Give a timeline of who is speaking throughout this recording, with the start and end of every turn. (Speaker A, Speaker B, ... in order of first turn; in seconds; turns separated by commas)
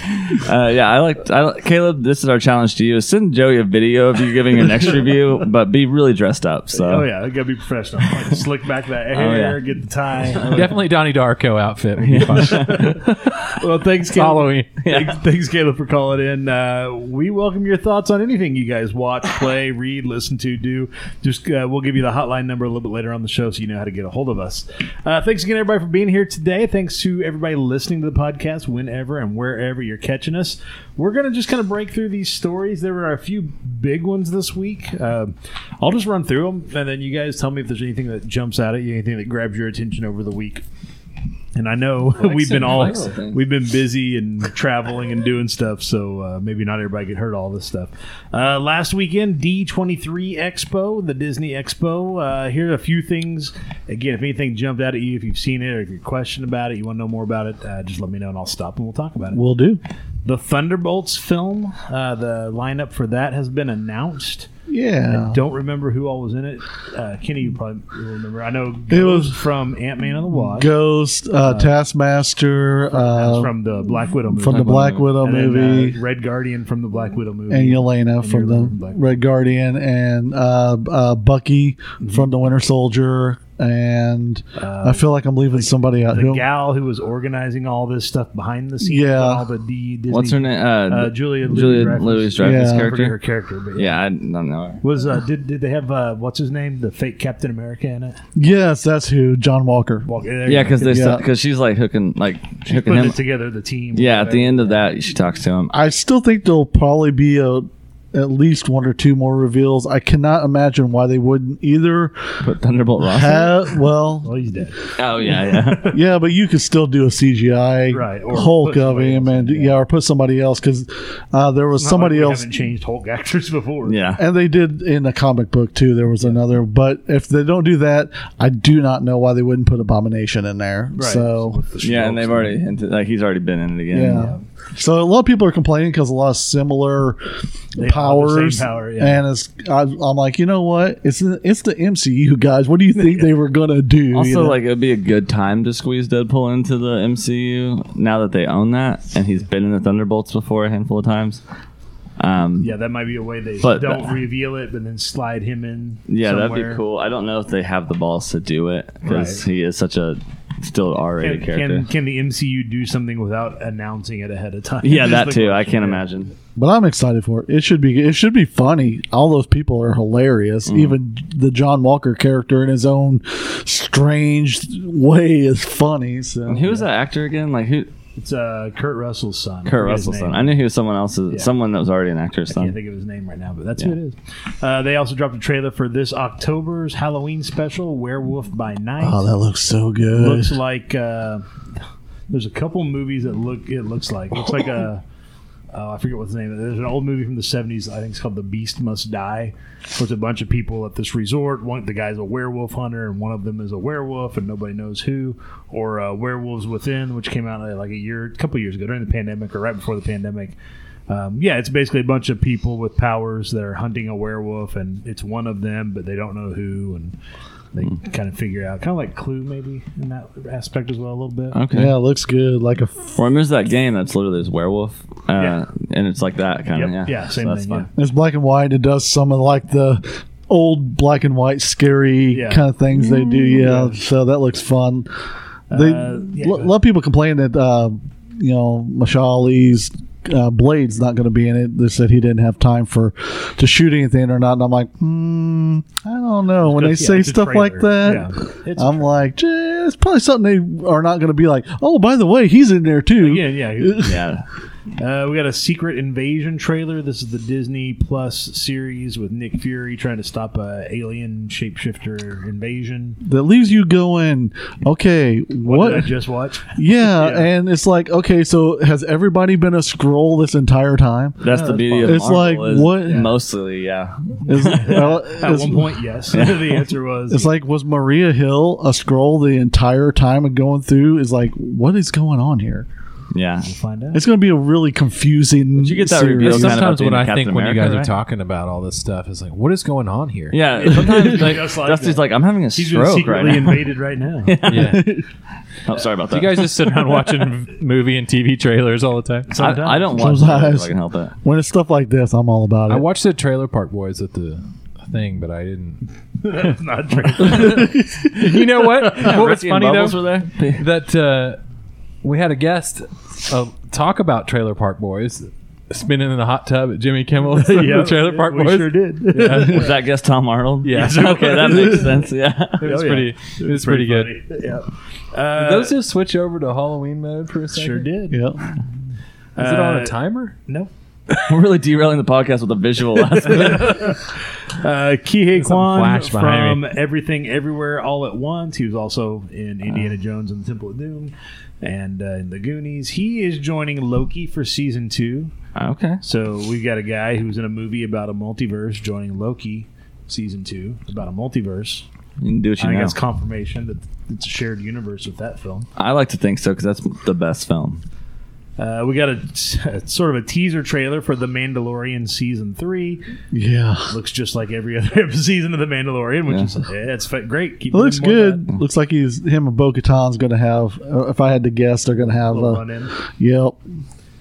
Speaker A: 0.3-7.1, Speaker B: 6.7-10.9, Speaker A: 9.1-9.6, Speaker C: 10.5-13.4, Speaker A: 12.0-12.9, Speaker B: 12.3-13.0, Speaker B: 13.6-40.6, Speaker C: 14.1-14.8, Speaker A: 14.8-15.2, Speaker B: 41.5-59.4, Speaker C: 42.2-43.1, Speaker A: 42.4-43.4, Speaker D: 59.3-59.8, Speaker B: 60.2-64.5, Speaker D: 64.7-65.4, Speaker B: 65.1-70.7, Speaker D: 68.9-69.4, Speaker D: 70.3-73.5, Speaker B: 71.5-71.7, Speaker B: 72.9-79.0, Speaker D: 74.3-76.0, Speaker A: 74.4-75.1, Speaker D: 77.5-86.5, Speaker B: 82.0-82.3, Speaker B: 84.6-85.0, Speaker B: 86.1-94.0, Speaker D: 88.8-89.4, Speaker A: 90.1-93.2, Speaker D: 92.4-93.0, Speaker A: 93.8-94.8, Speaker B: 94.8-98.2, Speaker D: 98.4-100.1, Speaker B: 100.1-101.1, Speaker A: 100.5-103.2, Speaker D: 100.8-101.2, Speaker B: 102.7-104.8, Speaker A: 103.9-105.7, Speaker D: 105.7-112.2, Speaker A: 112.4-113.6, Speaker D: 113.0-114.3, Speaker B: 114.2-116.0, Speaker A: 115.0-116.0, Speaker D: 115.9-122.5, Speaker B: 117.9-119.8, Speaker B: 121.8-124.0, Speaker A: 123.9-124.2, Speaker D: 124.2-131.6, Speaker B: 130.9-132.6, Speaker A: 131.8-134.3, Speaker D: 133.9-137.2, Speaker B: 134.0-134.4, Speaker D: 137.7-144.6, Speaker B: 137.8-139.2, Speaker A: 144.1-151.4, Speaker A: 152.2-152.7, Speaker B: 152.6-156.8, Speaker A: 153.6-154.2, Speaker A: 156.1-161.9, Speaker B: 159.1-159.4, Speaker B: 161.2-166.0, Speaker A: 164.8-166.3, Speaker D: 166.6-176.9, Speaker A: 170.7-171.0, Speaker A: 176.5-177.9, Speaker B: 178.2-180.6, Speaker A: 179.7-182.8, Speaker B: 182.5-189.3, Speaker D: 189.0-190.6, Speaker B: 190.1-191.5, Speaker B: 192.3-195.0, Speaker B: 195.7-210.6, Speaker B: 211.1-217.2, Speaker B: 217.7-221.6, Speaker A: 221.5-221.9, Speaker D: 221.7-223.1, Speaker A: 223.2-227.9, Speaker B: 226.7-227.9, Speaker D: 228.0-235.1, Speaker B: 232.3-232.6, Speaker B: 233.5-234.0, Speaker B: 235.7-236.7, Speaker D: 235.7-254.3, Speaker B: 246.7-249.1, Speaker B: 253.2-254.2, Speaker A: 254.0-254.4, Speaker B: 255.0-263.2, Speaker D: 263.2-266.1, Speaker B: 265.6-267.5, Speaker D: 266.7-273.3, Speaker A: 271.4-275.1, Speaker B: 271.5-272.5, Speaker B: 273.0-273.3, Speaker D: 274.5-276.0, Speaker B: 274.5-277.5, Speaker A: 276.3-276.8, Speaker D: 277.3-282.9, Speaker A: 283.3-283.7, Speaker B: 283.6-284.2, Speaker D: 284.1-286.9, Speaker A: 285.8-288.1, Speaker C: 286.4-290.7, Speaker A: 290.5-295.1, Speaker B: 290.8-294.6, Speaker C: 294.6-295.1, Speaker D: 294.9-295.2, Speaker A: 295.9-297.1, Speaker C: 296.3-299.5, Speaker B: 299.5-300.4, Speaker A: 299.6-301.3, Speaker D: 300.1-303.1, Speaker C: 302.9-306.0, Speaker B: 306.4-308.0, Speaker C: 307.3-311.6, Speaker D: 307.6-308.2, Speaker B: 308.8-309.4, Speaker A: 309.2-310.9, Speaker C: 312.2-319.9, Speaker B: 317.6-319.9, Speaker A: 319.5-322.8, Speaker C: 320.8-321.3, Speaker B: 320.9-322.2, Speaker C: 322.8-324.3, Speaker B: 322.8-326.0, Speaker C: 325.6-328.1, Speaker B: 327.7-328.4, Speaker D: 328.3-328.6, Speaker B: 329.6-330.2, Speaker C: 329.6-330.6, Speaker A: 331.5-334.1, Speaker B: 333.4-345.5, Speaker C: 335.6-336.8, Speaker A: 345.8-346.2, Speaker B: 346.2-352.1, Speaker A: 352.4-353.2, Speaker B: 352.8-355.9, Speaker A: 356.0-358.0, Speaker B: 358.8-363.2, Speaker D: 363.5-364.1, Speaker B: 364.1-368.7, Speaker D: 367.9-373.8, Speaker B: 372.4-373.1